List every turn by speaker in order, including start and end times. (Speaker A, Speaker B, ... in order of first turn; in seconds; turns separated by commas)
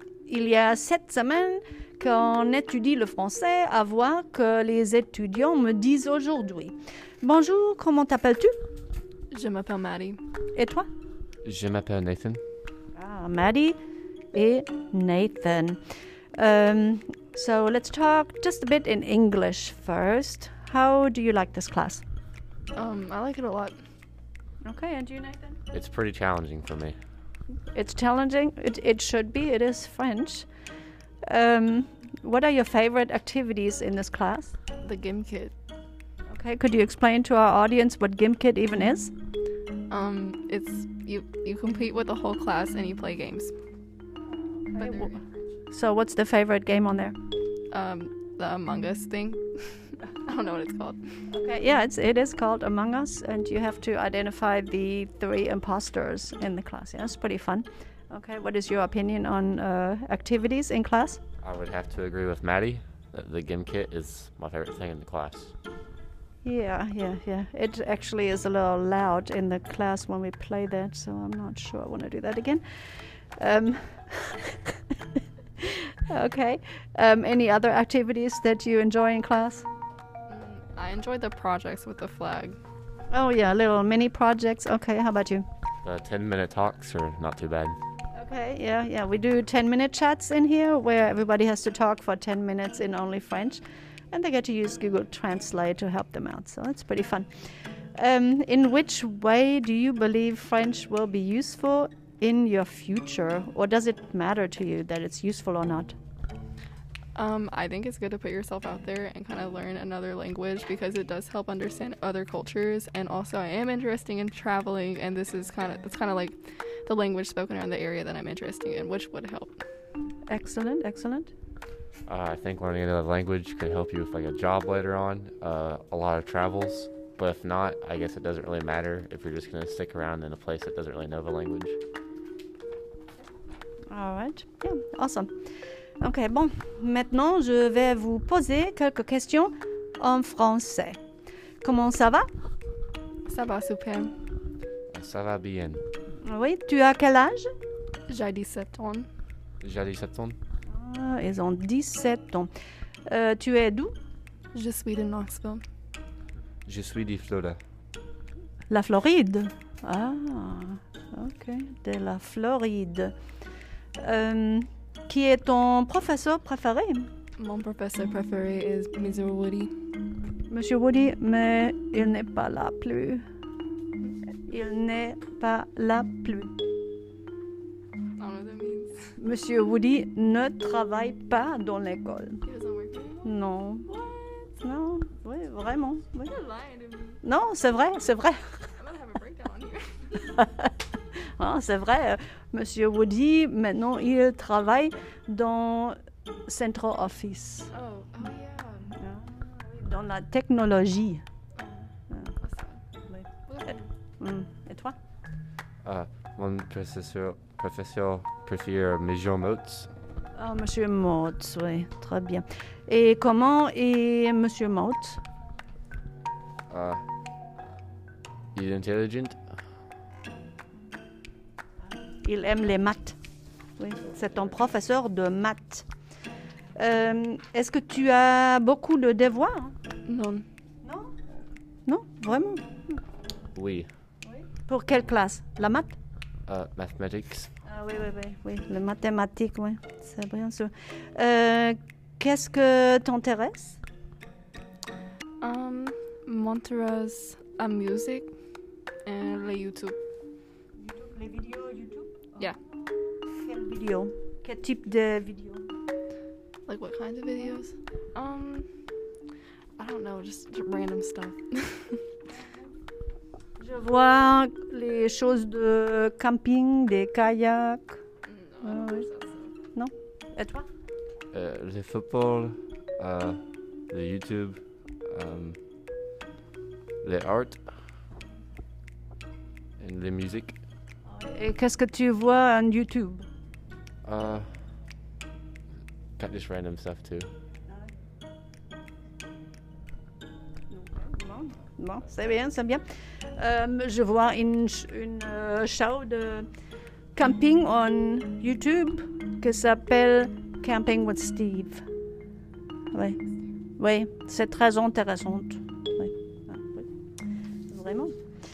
Speaker A: 0.3-8.5, Speaker B: 9.3-10.2, Speaker A: 10.5-10.9, Speaker C: 11.4-12.4, Speaker A: 12.9-13.8, Speaker A: 14.3-15.8, Speaker A: 16.4-22.0, Speaker B: 22.8-23.8, Speaker A: 24.6-25.6, Speaker C: 25.7-27.0, Speaker A: 27.7-30.5, Speaker A: 31.3-34.5, Speaker B: 34.8-35.5, Speaker A: 36.3-39.1, Speaker B: 39.9-43.5, Speaker A: 44.6-45.1, Speaker B: 44.8-45.2, Speaker A: 45.7-47.2, Speaker B: 47.7-51.0, Speaker A: 51.3-61.2, Speaker C: 61.4-65.5, Speaker A: 66.4-72.6, Speaker A: 73.4-74.8, Speaker A: 75.6-79.7, Speaker B: 80.3-82.6, Speaker A: 83.1-85.5, Speaker C: 85.8-87.8, Speaker A: 88.1-97.3, Speaker A: 98.0-106.0, Speaker B: 107.1-119.6, Speaker A: 120.3-121.3, Speaker C: 122.1-131.8, Speaker A: 133.9-135.3, Speaker A: 136.0-141.0, Speaker A: 141.6-142.3, Speaker B: 143.3-144.1, Speaker C: 144.9-145.8, Speaker A: 146.2-147.5, Speaker B: 148.1-149.1, Speaker C: 149.6-150.4, Speaker A: 150.7-152.5, Speaker A: 153.1-153.9, Speaker B: 154.5-155.6, Speaker C: 156.7-157.6, Speaker A: 158.7-163.1, Speaker A: 164.0-167.1, Speaker B: 167.4-169.7, Speaker A: 170.5-173.2, Speaker A: 174.5-176.6, Speaker B: 178.2-179.1, Speaker A: 179.2-182.4, Speaker B: 182.4-183.3, Speaker A: 183.2-183.9, Speaker B: 183.8-184.6, Speaker A: 184.6-186.3, Speaker B: 186.2-187.2, Speaker A: 187.2-188.6, Speaker B: 188.8-190.3, Speaker A: 190.3-190.7, Speaker A: 191.4-197.7, Speaker B: 197.7-199.0, Speaker A: 199.0-201.2, Speaker B: 201.6-202.8, Speaker B: 203.5-203.9, Speaker A: 204.2-204.9, Speaker C: 205.8-209.9, Speaker A: 210.3-215.2, Speaker C: 216.7-217.0, Speaker C: 218.5-219.4, Speaker A: 222.2-223.2, Speaker A: 223.8-225.8, Speaker A: 226.8-229.8, Speaker B: 230.1-230.5, Speaker A: 230.8-231.2, Speaker A: 231.8-233.0, Speaker C: 233.6-233.9, Speaker A: 234.2-235.9, Speaker C: 236.5-237.5, Speaker A: 237.7-243.8, Speaker B: 245.4-248.3, Speaker B: 249.1-249.9, Speaker A: 250.8-252.5, Speaker A: 253.3-255.7, Speaker B: 256.7-258.7, Speaker B: 259.8-262.0, Speaker A: 263.6-268.0, Speaker B: 268.2-269.5, Speaker A: 268.6-269.1, Speaker A: 269.7-270.7, Speaker C: 271.3-273.4, Speaker C: 273.9-275.6, Speaker C: 277.0-277.6, Speaker C: 279.8-280.6, Speaker A: 281.1-283.2, Speaker C: 284.0-284.5, Speaker C: 286.2-287.3, Speaker A: 290.7-292.8, Speaker A: 293.4-296.5, Speaker A: 297.1-301.8, Speaker A: 302.9-303.2, Speaker A: 303.8-306.9, Speaker A: 307.7-308.1